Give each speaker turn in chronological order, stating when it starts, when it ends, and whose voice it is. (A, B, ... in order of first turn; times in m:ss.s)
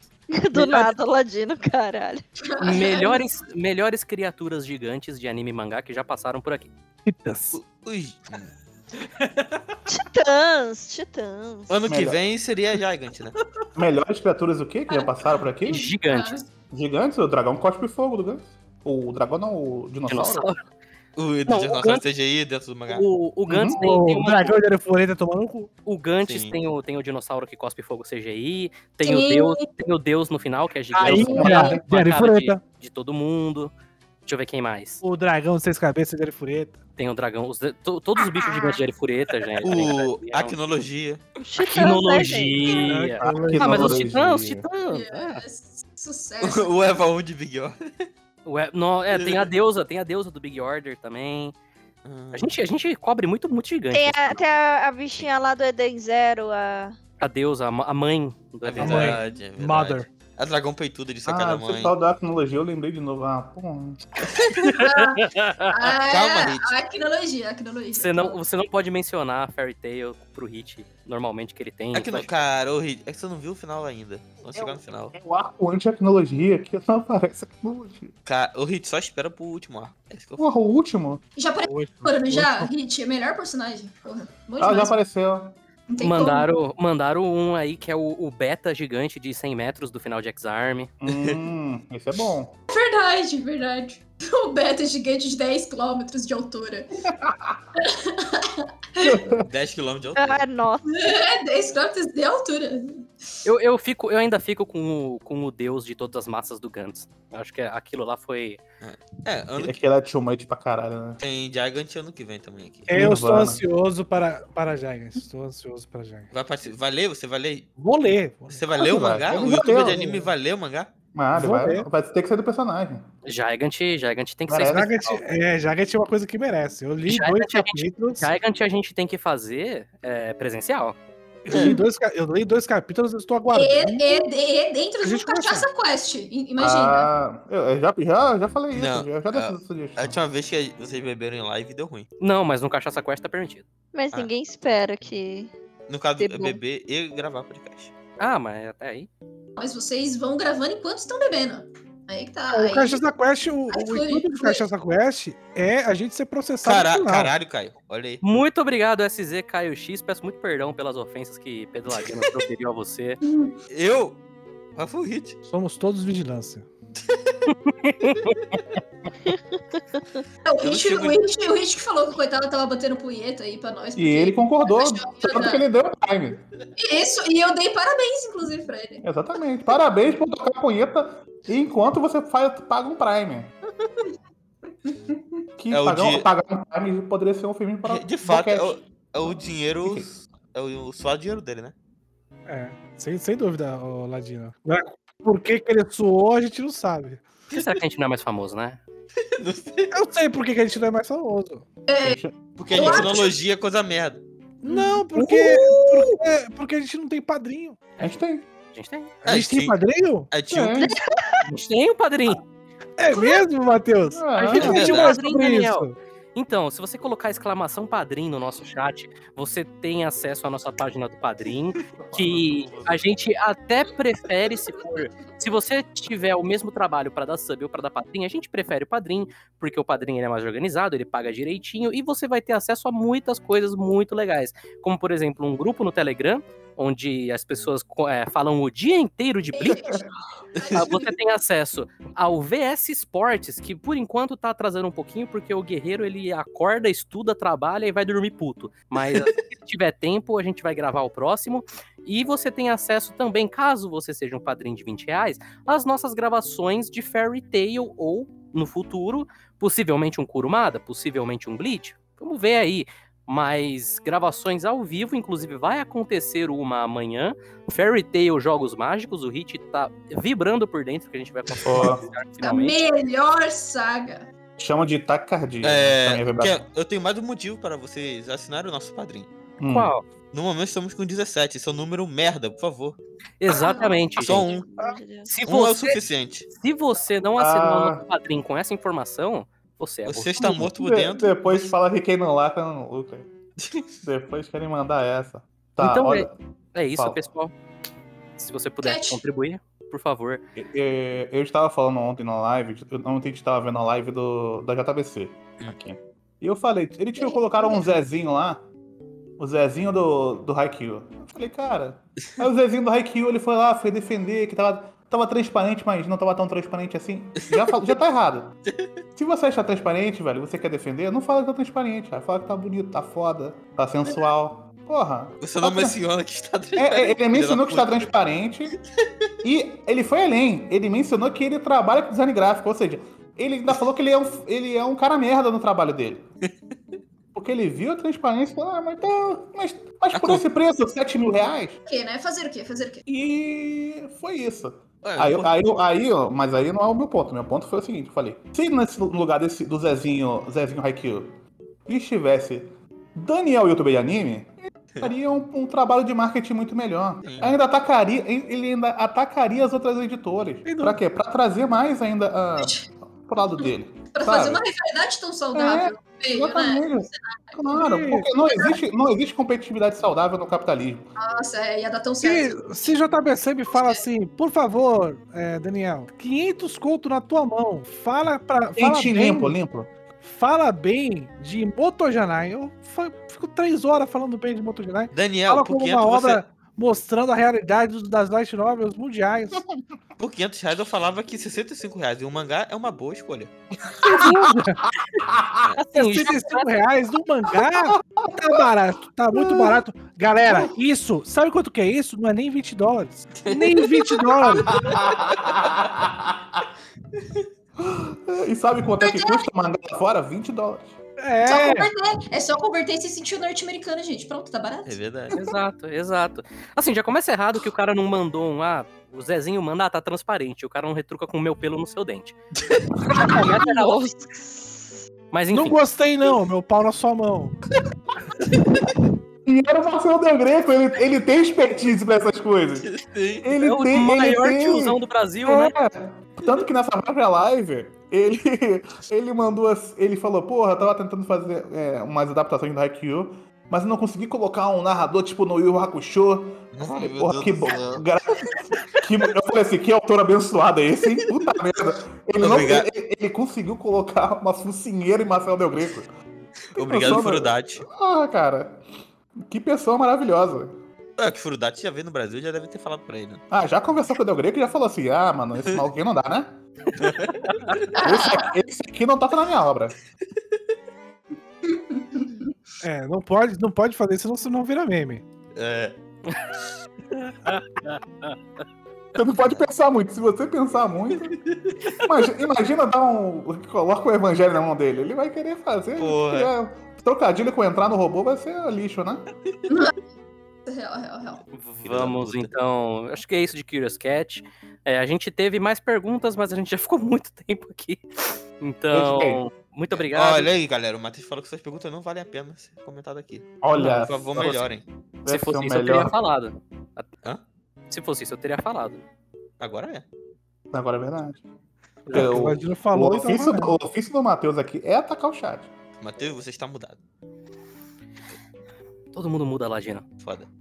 0:00.3-0:02.2 A
0:00.5-0:00.8 B
0:02.5-0:03.2 C
0:02.6-0:06.7 B
0:07.0-0:07.6 D
0:07.5-0:08.5 E
0:09.2-0:09.6 D
0:09.9-0:11.8 A
0:11.7-0:13.4 E
0:11.9-0:12.2 F
0:13.7-0:15.8 F
0:14.9-0:16.5 C
0:15.6-0:16.4 B
0:16.7-0:20.5 F
0:20.1-0:20.6 B
0:21.2-0:23.1 E
0:21.5-0:22.0 B
0:22.9-0:24.6 B
0:23.5-0:23.8 F
0:23.7-0:25.7 D
0:25.8-0:33.7 B
0:26.2-0:26.6 E
0:29.0-0:29.7 C
0:30.9-0:32.6 D
0:31.1-0:31.6 C
0:31.1-0:31.8 F
0:34.2-0:35.0 B
0:35.0-0:36.8 D
0:37.0-0:40.6 B
0:39.6-0:41.2 E
0:41.4-0:42.9 A
0:41.6-0:45.4 B
0:42.8-0:44.0 D
0:43.2-0:44.6 F
0:44.9-0:46.8 C
0:46.4-0:48.1 E
0:48.4-0:51.5 B
0:49.1-0:49.5 E
0:52.0-0:52.5 E
0:52.3-0:54.4 B
0:53.9-0:57.0 A
0:57.2-0:59.2 B
0:58.6-1:01.9 E
0:58.8-1:00.1 D
1:01.2-1:04.1 F
1:04.3-1:04.7 E
1:04.5-1:05.7 B
1:04.7-1:08.3 C
1:06.1-1:06.7 E
1:07.9-1:12.3 B
1:11.9-1:15.1 E
1:14.5-1:18.1 F
1:18.2-1:20.4 E
1:20.4-1:21.2 F
1:21.4-1:24.9 C
1:21.6-1:22.7 D
1:24.6-1:25.6 F
1:25.9-1:26.5 C
1:26.0-1:30.9 B
1:31.0-1:32.6 F
1:31.1-1:31.4 E
1:32.7-1:36.9 C
1:37.1-1:37.6 F
1:37.8-1:39.2 C
1:39.0-1:39.5 F
1:39.4-1:40.4 E
1:40.2-1:40.8 A
1:40.8-1:43.0 C
1:43.4-1:48.6 B
1:48.8-1:49.8 E
1:49.5-1:51.2 F
1:51.2-1:53.0 E
1:52.9-1:56.3 D
1:52.9-1:53.6 F
1:56.3-1:57.7 E
1:57.8-1:58.7 D
1:58.5-2:00.9 E
1:58.7-2:00.3 F
2:01.1-2:03.0 F
2:01.3-2:01.9 D
2:03.2-2:05.2 B
2:04.5-2:05.0 F
2:04.6-2:08.3 D
2:07.1-2:11.0 B
2:11.4-2:14.2 D
2:13.5-2:17.1 C
2:15.0-2:15.7 D
2:16.6-2:20.2 F
2:18.7-2:22.1 E
2:22.2-2:23.6 B
2:23.9-2:25.5 A
2:25.9-2:27.9 E
2:26.2-2:26.6 A
2:28.2-2:29.1 B
2:29.6-2:33.0 C
2:32.5-2:37.3 D
2:33.7-2:34.7 C
2:36.6-2:38.2 E
2:38.2-2:43.2 B
2:43.2-2:43.6 C
2:43.7-2:44.2 E
2:44.7-2:45.4 E
2:45.5-2:46.7 D
2:47.0-2:47.4 E
2:47.5-2:48.6 B
2:48.4-2:48.6 E
2:49.2-2:50.0 A
2:50.4-2:55.6 C
2:50.6-2:51.2 E
2:54.0-2:56.4 F
2:56.8-2:59.0 C
2:59.0-3:03.5 F
3:05.6-3:10.2 F
3:05.7-3:06.3 E
3:07.8-3:11.7 E
3:12.4-3:17.2 D
3:17.5-3:18.8 B
3:17.5-3:17.8 E
3:19.2-3:20.0 E
3:19.9-3:21.6 D
3:21.9-3:22.2 C
3:22.0-3:23.1 F
3:22.6-3:24.2 E
3:22.7-3:23.4 C
3:24.6-3:25.0 C
3:24.6-3:27.9 D
3:25.1-3:26.2 B
3:28.0-3:28.4 F
3:28.0-3:29.1 B
3:29.2-3:30.8 E
3:29.2-3:30.5 D
3:30.5-3:31.0 F
3:31.4-3:32.4 B
3:33.0-3:35.9 D
3:34.1-3:34.9 F
3:34.4-3:59.8 B
3:34.6-3:35.2 E
3:42.0-3:42.9 F
3:59.5-4:01.1 C
4:00.7-4:32.8 B
4:09.1-4:09.4 E
4:31.6-4:32.1 F
4:32.4-4:34.3 C
4:34.6-4:36.6 F
4:35.6-4:39.3 E
4:39.6-4:39.9 F
4:39.6-4:40.0 B
4:40.3-4:43.0 E
4:43.4-4:44.5 B
4:43.6-4:45.3 A
4:43.6-4:43.9 C
4:44.2-4:44.7 E
4:45.2-4:50.6 B
4:45.4-4:46.5 E
4:47.4-4:48.0 F
4:50.0-4:51.7 E
4:50.4-4:53.3 F
4:53.6-4:53.9 E
4:54.0-4:56.3 F
4:55.8-4:57.5 B
4:56.9-4:57.2 F
4:58.4-5:00.4 B
4:58.8-4:59.2 C
5:00.6-5:08.6 F
5:07.2-5:07.8 C
5:09.4-5:18.6 F
5:17.4-5:17.6 E
5:18.6-5:18.9 E
5:19.2-5:26.0 F
5:25.4-5:28.1 E
5:26.8-5:28.8 F
5:28.7-5:29.3 E
5:29.4-5:36.2 F
5:36.4-5:37.0 E
5:37.3-5:41.8 F
5:40.1-5:40.4 E
5:41.9-5:43.0 C
5:43.1-6:04.6 F
5:45.0-5:45.5 E
5:57.2-5:57.6 E
6:00.6-6:01.0 D
6:02.6-6:02.8 C
6:03.6-6:07.6 C
6:05.5-6:11.1 F
6:07.7-6:08.3 D
6:08.4-6:08.8 C
6:11.2-6:13.0 C
6:12.2-6:19.6 D
6:13.7-6:14.0 C
6:18.8-6:19.9 F
6:20.2-6:29.6 D
6:25.1-6:26.4 E
6:30.2-6:33.5 E
6:34.0-6:34.9 D
6:34.0-6:35.7 F
6:35.7-6:36.7 B
6:35.9-6:44.8 D
6:37.8-6:38.6 F
6:39.3-6:39.8 F
6:43.3-6:45.4 E
6:44.6-6:46.6 F
6:47.8-6:51.0 F
6:49.0-6:49.5 C
6:51.2-6:51.9 D
6:51.4-6:55.0 C
6:54.8-6:55.3 E
6:55.3-7:02.4 B
7:03.1-7:04.1 B
7:03.2-7:05.0 A
7:05.3-7:05.8 B
7:05.5-7:07.6 D
7:09.4-7:12.9 F
7:12.8-7:13.5 E
7:13.4-7:36.1 F
7:13.6-7:15.7 B
7:26.7-7:28.0 E
7:32.4-7:32.9 E
7:36.7-7:37.8 E
7:36.8-7:38.8 F
7:39.4-7:40.7 F
7:41.2-7:43.4 E
7:43.5-7:46.6 F
7:46.9-7:47.9 E
7:47.4-7:47.8 B
7:48.0-7:48.5 C
7:48.0-7:50.0 F
7:51.6-7:52.5 C
7:52.8-7:55.2 D
7:55.5-7:55.9 E
7:57.1-7:58.4 B
7:59.1-8:01.4 F
8:01.4-8:01.9 E
8:02.0-8:09.3 F
8:06.0-8:06.5 E
8:09.7-8:09.9 C
8:10.6-8:11.4 C
8:11.5-8:18.0 B
8:11.8-8:12.5 E
8:18.6-8:20.5 B
8:18.9-8:19.4 F
8:19.9-8:24.8 E
8:23.6-8:24.7 F
8:25.2-8:26.1 F
8:25.3-8:27.1 B
8:27.9-8:29.0 B
8:29.6-8:30.0 E
8:30.7-8:31.4 F
8:32.0-8:32.3 B
8:32.1-8:35.7 F
8:32.1-8:33.7 D
8:36.0-8:37.0 E
8:39.1-8:40.0 B
8:40.2-8:40.5 E